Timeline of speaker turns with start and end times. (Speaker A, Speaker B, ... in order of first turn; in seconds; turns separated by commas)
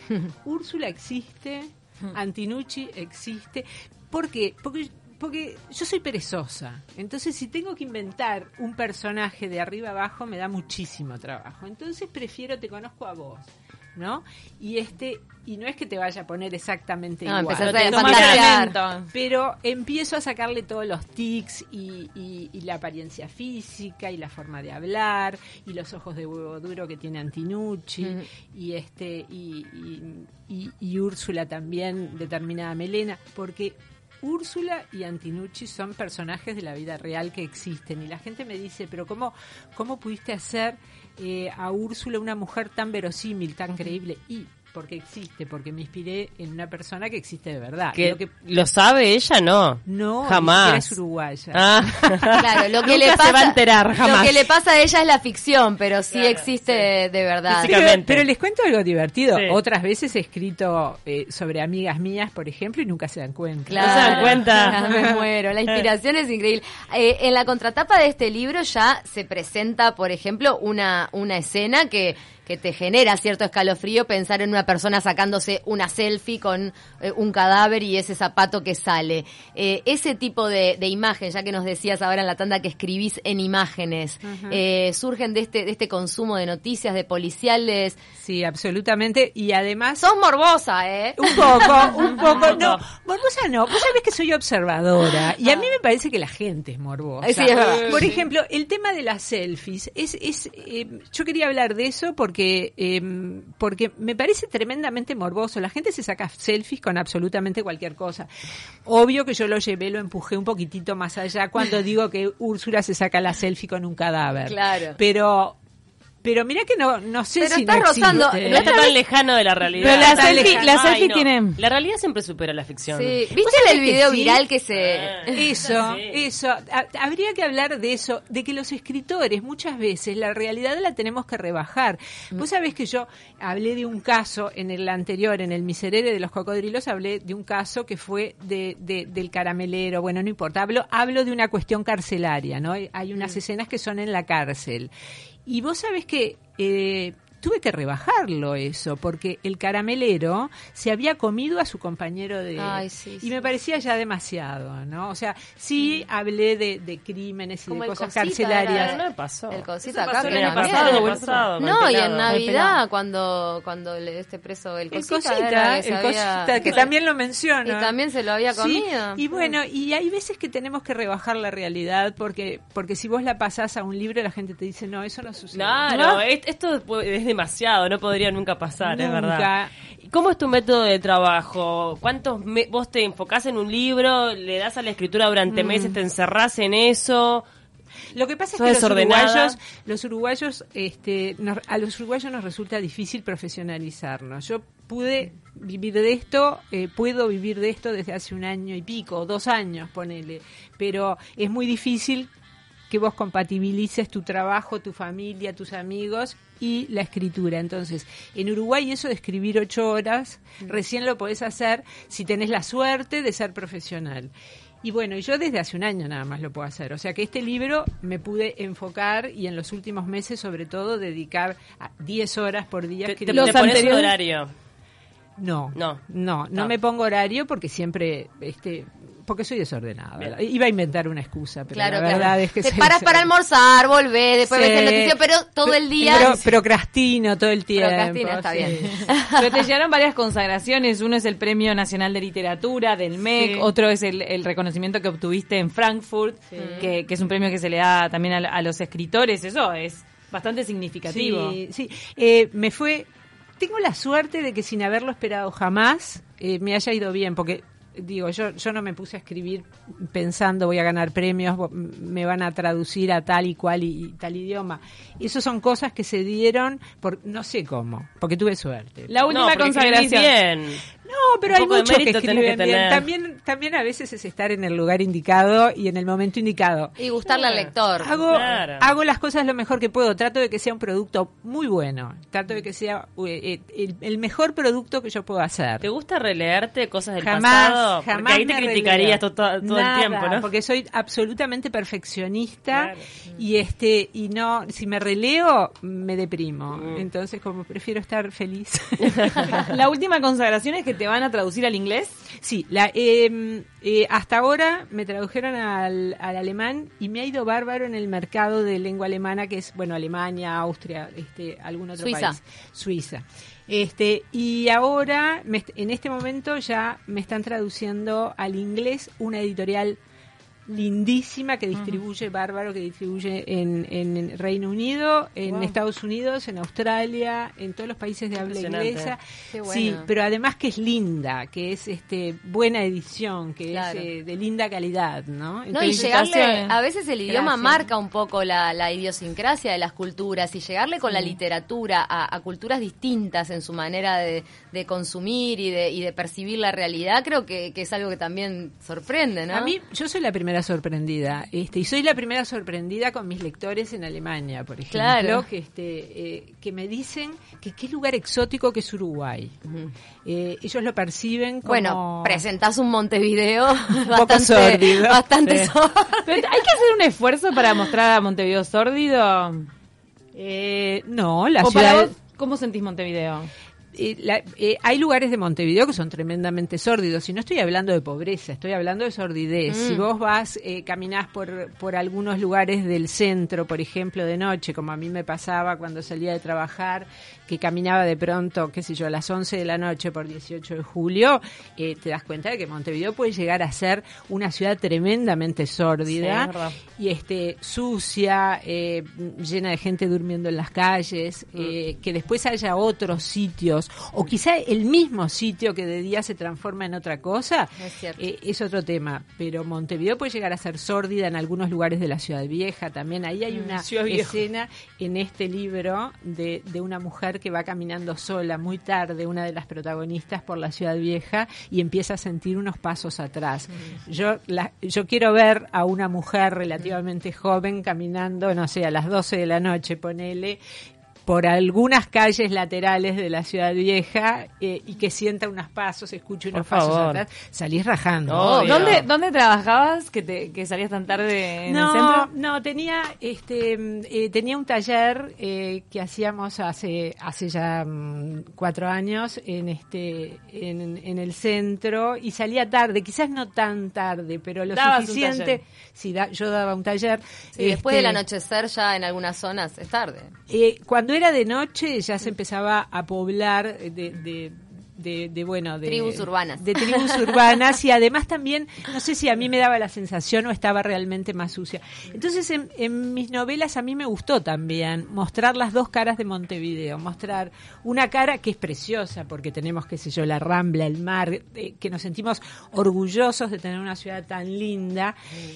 Speaker A: 0.3-18.5, Speaker B: 17.2-18.8, Speaker C: 17.6-18.5, Speaker D: 17.9-19.1, Speaker A: 19.1-48.3, Speaker C: 48.0-51.0, Speaker A: 49.9-52.5, Speaker C: 51.5-54.5, Speaker B: 52.4-57.8, Speaker C: 56.1-56.9, Speaker C: 57.5-58.3, Speaker A: 57.6-65.2, Speaker C: 59.3-59.6, Speaker B: 63.7-88.0, Speaker C: 63.8-64.8, Speaker A: 84.2-84.6, Speaker A: 88.2-90.0, Speaker B: 90.0-92.5, Speaker A: 91.2-108.3, Speaker C: 92.3-92.8, Speaker B: 95.4-95.7, Speaker B: 97.2-98.1, Speaker A: 108.9-115.6, Speaker B: 114.5-115.0, Speaker A: 116.2-118.8, Speaker B: 117.4-119.0, Speaker C: 118.5-123.2, Speaker A: 119.8-120.7, Speaker D: 119.8-121.6, Speaker B: 122.9-125.5, Speaker A: 123.3-124.5, Speaker C: 124.7-126.2, Speaker A: 125.3-144.9, Speaker A: 145.5-159.0, Speaker B: 152.6-153.5, Speaker B: 157.7-166.9, Speaker C: 158.7-162.3, Speaker D: 159.9-161.5, Speaker D: 162.3-162.8, Speaker A: 164.9-168.0, Speaker B: 167.6-169.2, Speaker A: 168.5-176.1, Speaker C: 175.5-179.5, Speaker D: 175.9-176.2, Speaker A: 178.8-179.7, Speaker C: 180.0-187.4, Speaker A: 185.5-186.0, Speaker A: 188.1-202.3, Speaker C: 188.6-189.6, Speaker A: 202.9-214.3, Speaker A: 214.8-223.9, Speaker C: 223.1-224.5, Speaker D: 223.3-224.2, Speaker A: 225.4-233.3, Speaker C: 225.8-226.0, Speaker B: 231.7-236.4, Speaker A: 234.5-239.0, Speaker D: 236.0-236.4, Speaker B: 237.7-239.5, Speaker D: 238.6-251.6, Speaker A: 243.3-243.7, Speaker B: 246.6-246.9, Speaker A: 251.1-253.1, Speaker A: 253.6-269.1, Speaker D: 269.1-270.3, Speaker C: 269.3-270.8, Speaker A: 271.1-277.0, Speaker C: 271.5-273.1, Speaker B: 277.0-278.3, Speaker A: 278.0-285.9, Speaker C: 278.3-278.9, Speaker C: 285.8-290.5, Speaker A: 287.2-299.6, Speaker C: 292.7-293.0, Speaker C: 296.7-297.0, Speaker C: 299.1-299.5, Speaker D: 299.5-302.2, Speaker A: 302.3-320.0, Speaker B: 312.0-312.4, Speaker A: 320.7-336.2, Speaker D: 325.5-325.7, Speaker C: 328.4-329.1, Speaker B: 329.5-330.1, Speaker B: 333.7-334.1, Speaker B: 335.7-349.7, Speaker D: 335.8-336.8, Speaker D: 337.3-337.8, Speaker A: 349.5-359.6, Speaker B: 354.9-355.4, Speaker A: 360.2-362.5, Speaker B: 361.7-366.4, Speaker A: 364.1-365.2, Speaker D: 366.3-369.7, Speaker A: 370.4-372.1, Speaker D: 371.6-373.5, Speaker A: 373.9-430.6, Speaker B: 379.7-380.1, Speaker C: 396.1-396.8, Speaker B: 407.8-408.2, Speaker D: 413.7-414.4, Speaker A: 431.3-438.8, Speaker C: 436.5-437.2, Speaker C: 438.3-439.1, Speaker B: 438.4-439.0, Speaker D: 438.6-442.3, Speaker A: 441.7-458.2, Speaker D: 454.7-455.6, Speaker B: 457.6-460.3, Speaker A: 460.5-485.1, Speaker B: 465.8-467.3